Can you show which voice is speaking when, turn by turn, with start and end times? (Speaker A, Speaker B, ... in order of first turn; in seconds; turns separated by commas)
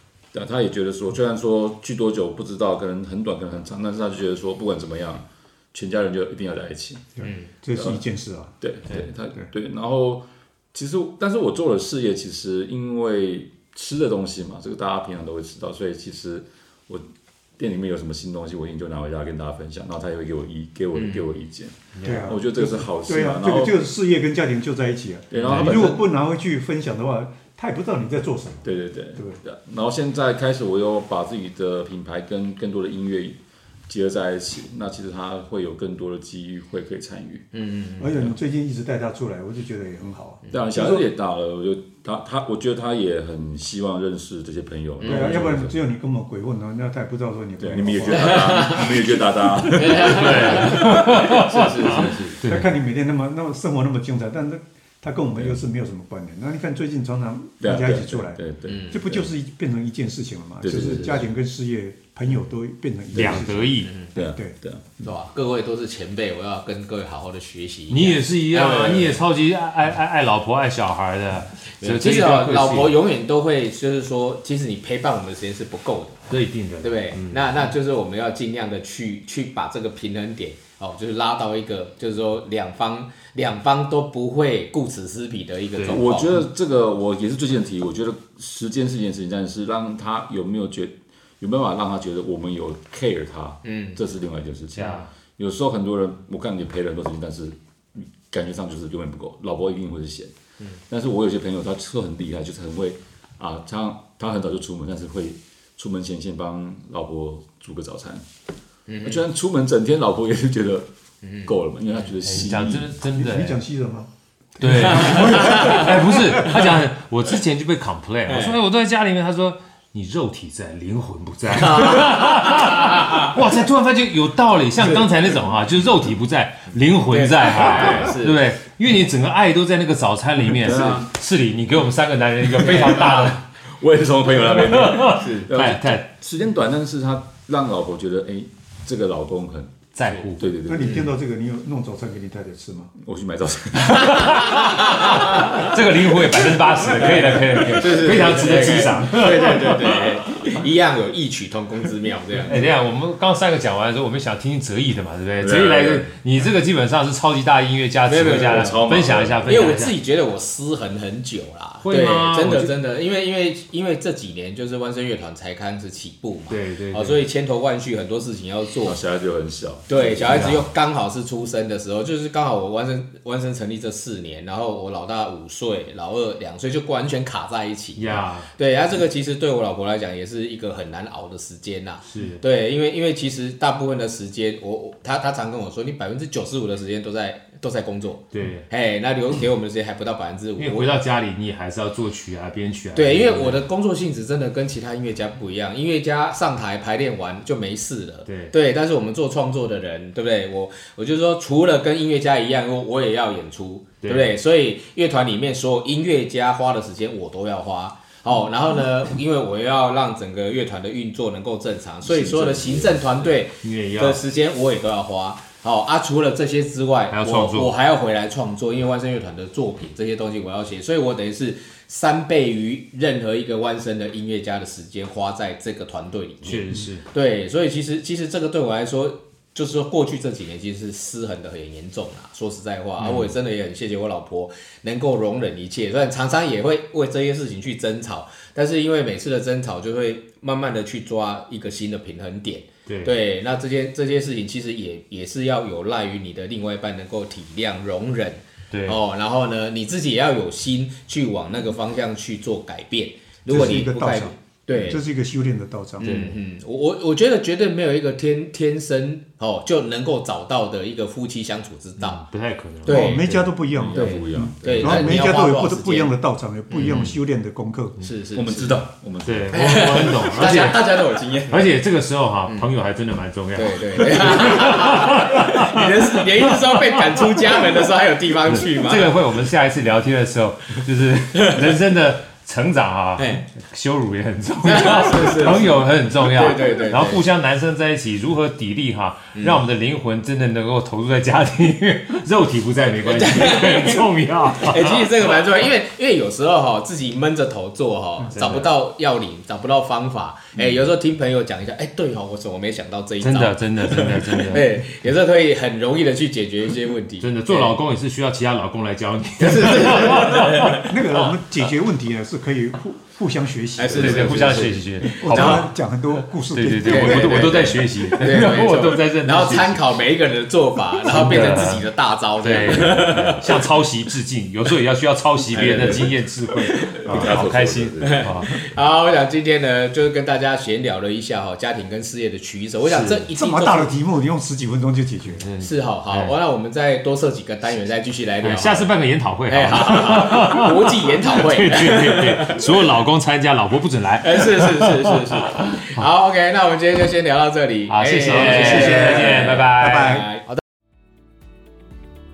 Speaker A: 0.3-7.1, Speaker B: 7.2-8.6, Speaker C: 7.2-7.5, Speaker A: 7.8-8.0, Speaker A: 8.6-17.0, Speaker A: 17.6-23.8, Speaker C: 20.9-21.3, Speaker D: 21.9-22.3, Speaker B: 22.0-29.4, Speaker A: 25.3-26.1, Speaker D: 25.4-25.9, Speaker A: 28.6-37.5, Speaker C: 37.5-38.3, Speaker B: 38.0-41.1, Speaker A: 40.5-45.8, Speaker C: 45.0-45.4, Speaker B: 45.0-48.4, Speaker A: 47.6-51.0, Speaker C: 48.1-49.1, Speaker C: 49.6-52.4, Speaker D: 50.1-52.7, Speaker B: 52.4-64.6, Speaker A: 57.6-59.3, Speaker C: 58.7-59.0, Speaker A: 60.6-61.3, Speaker A: 63.1-63.5, Speaker D: 63.1-63.9, Speaker C: 63.8-64.1, Speaker A: 64.1-65.0, Speaker C: 65.0-69.2, Speaker D: 67.9-73.0, Speaker C: 71.8-76.2, Speaker D: 76.3-77.5, Speaker C: 76.8-86.4, Speaker D: 85.8-86.0, Speaker A: 85.9-100.3, Speaker C: 93.7-94.0, Speaker D: 94.8-95.1, Speaker A: 100.9-108.2, Speaker C: 108.9-109.2, Speaker A: 109.0-110.9, Speaker C: 111.2-112.1, Speaker A: 111.4-112.9, Speaker D: 112.2-113.6, Speaker B: 113.2-116.5, Speaker D: 114.6-133.4, Speaker C: 114.8-116.0, Speaker C: 118.3-118.6, Speaker C: 121.5-123.3, Speaker A: 124.8-125.1, Speaker C: 127.1-128.5, Speaker A: 130.6-131.1, Speaker C: 132.6-133.4, Speaker A: 132.7-139.7, Speaker D: 134.5-136.1, Speaker C: 135.1-135.5, Speaker D: 139.9-140.4, Speaker A: 140.4-141.1, Speaker B: 140.6-142.9, Speaker C: 140.8-141.1, Speaker A: 143.0-144.6, Speaker D: 143.9-150.0, Speaker C: 144.0-145.7, Speaker C: 146.8-152.7, Speaker D: 152.4-160.0, Speaker A: 155.4-156.1, Speaker C: 158.1-158.8, Speaker A: 158.2-159.7, Speaker C: 159.5-169.0, Speaker D: 161.8-162.7, Speaker D: 166.5-167.2, Speaker A: 168.8-170.6, Speaker C: 169.9-190.9, Speaker D: 170.2-170.7, Speaker D: 178.0-178.5, Speaker D: 182.1-182.4, Speaker D: 188.3-188.7, Speaker D: 190.6-193.6, Speaker C: 192.9-255.0, Speaker D: 198.3-198.5, Speaker D: 204.0-204.3, Speaker A: 212.0-213.3, Speaker D: 213.6-214.2, Speaker D: 217.1-217.7, Speaker D: 226.4-227.1, Speaker D: 233.0-233.3, Speaker D: 242.9-243.1, Speaker D: 248.7-249.0, Speaker B: 253.5-256.1, Speaker C: 256.0-262.3, Speaker D: 256.0-256.4, Speaker D: 262.0-263.2, Speaker C: 262.8-263.5, Speaker B: 262.9-268.0, Speaker A: 263.8-265.3, Speaker D: 263.9-264.3, Speaker C: 264.6-266.1, Speaker C: 266.7-267.2, Speaker C: 268.0-268.9, Speaker A: 268.3-270.6, Speaker D: 269.2-270.9, Speaker C: 269.5-271.7, Speaker D: 271.5-275.9, Speaker C: 273.6-279.2, Speaker D: 276.6-276.9, Speaker D: 278.5-295.1, Speaker C: 283.2-283.4, Speaker C: 284.6-287.2, Speaker C: 289.4-289.6, Speaker C: 293.0-294.1, Speaker C: 294.6-307.8, Speaker D: 298.3-298.7, Speaker D: 303.2-304.7, Speaker D: 307.2-310.8, Speaker C: 309.4-311.3, Speaker B: 309.9-317.6, Speaker C: 313.8-315.7, Speaker D: 314.0-315.7, Speaker D: 316.5-319.9, Speaker C: 316.8-323.6, Speaker D: 321.0-328.5, Speaker C: 325.5-326.1, Speaker A: 325.6-325.9, Speaker C: 326.7-327.4, Speaker A: 327.0-328.4, Speaker C: 328.0-333.9, Speaker D: 332.8-333.2, Speaker B: 333.3-335.4, Speaker D: 335.3-336.4, Speaker C: 335.6-342.8, Speaker D: 338.4-344.9, Speaker C: 344.2-350.6, Speaker D: 347.9-350.2, Speaker B: 348.3-350.3